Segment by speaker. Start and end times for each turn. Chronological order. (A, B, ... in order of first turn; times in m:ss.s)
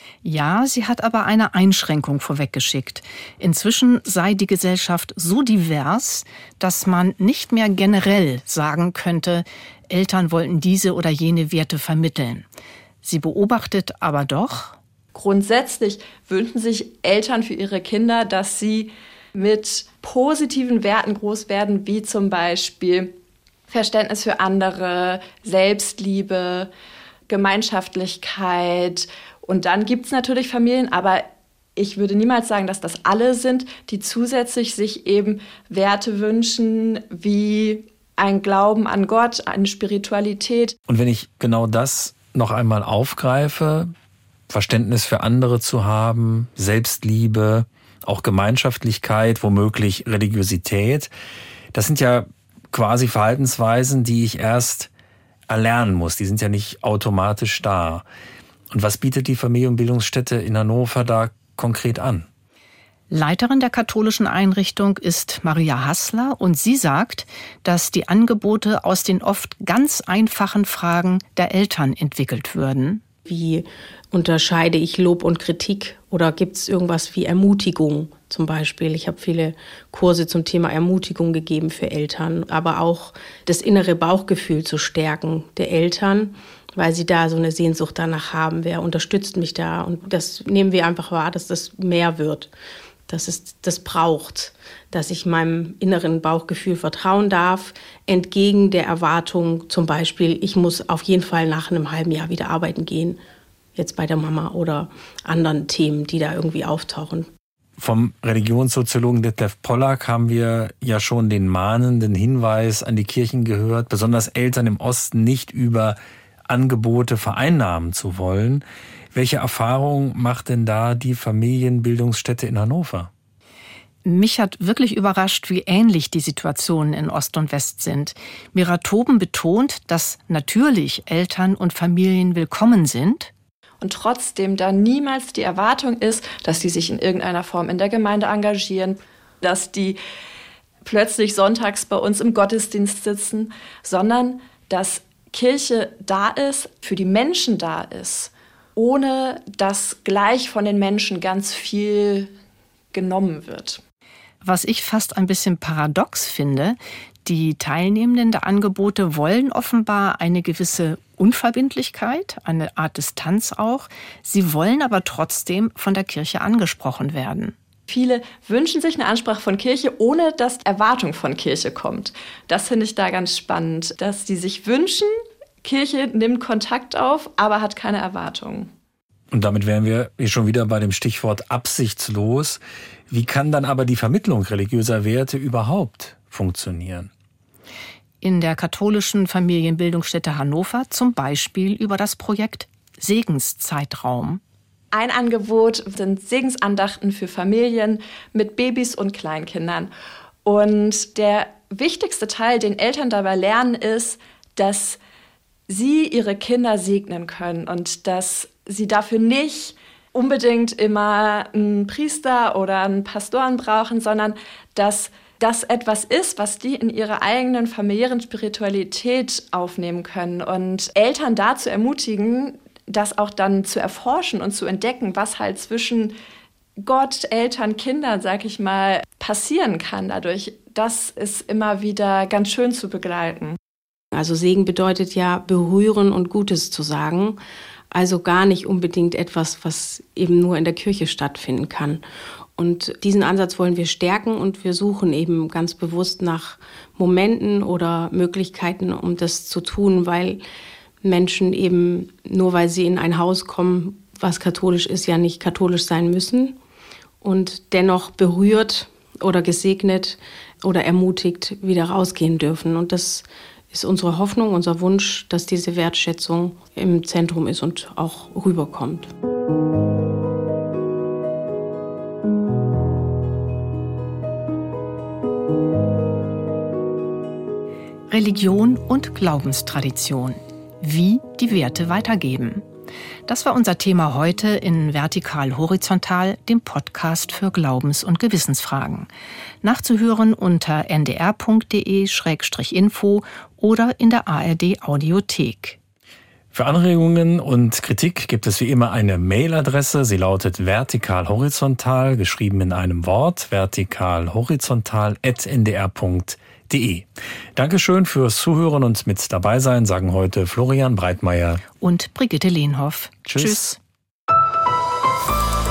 0:00.2-0:12.4 A
0:13.0-0:14.8 A
0:15.1-0:23.1 B
0:23.7-0:26.7 B
0:27.3-0:31.2 B
0:31.8-0:40.7 B
0:40.9-0:43.9 C
0:44.5-0:51.1 C
0:51.7-0:54.9 C
0:55.5-0:58.0 C
0:58.7-1:02.3 C
1:03.1-1:13.0 A
1:13.2-1:32.5 D
1:33.1-1:43.2 D
1:43.7-1:47.3 D
1:47.8-1:56.0 C
1:56.5-2:03.1 C
2:04.0-2:13.3 A
2:13.8-2:20.0 B
2:20.8-2:32.3 B
2:32.9-2:33.8 B
2:34.4-2:47.5 A
2:47.9-2:55.1 B
2:55.6-2:58.7 B
2:59.3-3:07.1 C
3:08.2-3:14.4 A
3:14.9-3:19.9 B
3:20.4-3:25.0 B
3:25.7-3:46.1 B
3:46.8-3:53.6 B
3:54.1-3:57.4 D
3:57.9-4:02.0 D
4:02.6-4:10.4 D
4:11.0-4:16.6 D
4:17.2-4:29.1 D
4:38.1-4:42.6 A
4:43.3-4:49.1 A
4:49.6-4:55.8 A
4:56.5-5:11.6 C
5:11.8-5:13.8 A
5:13.2-5:13.6 C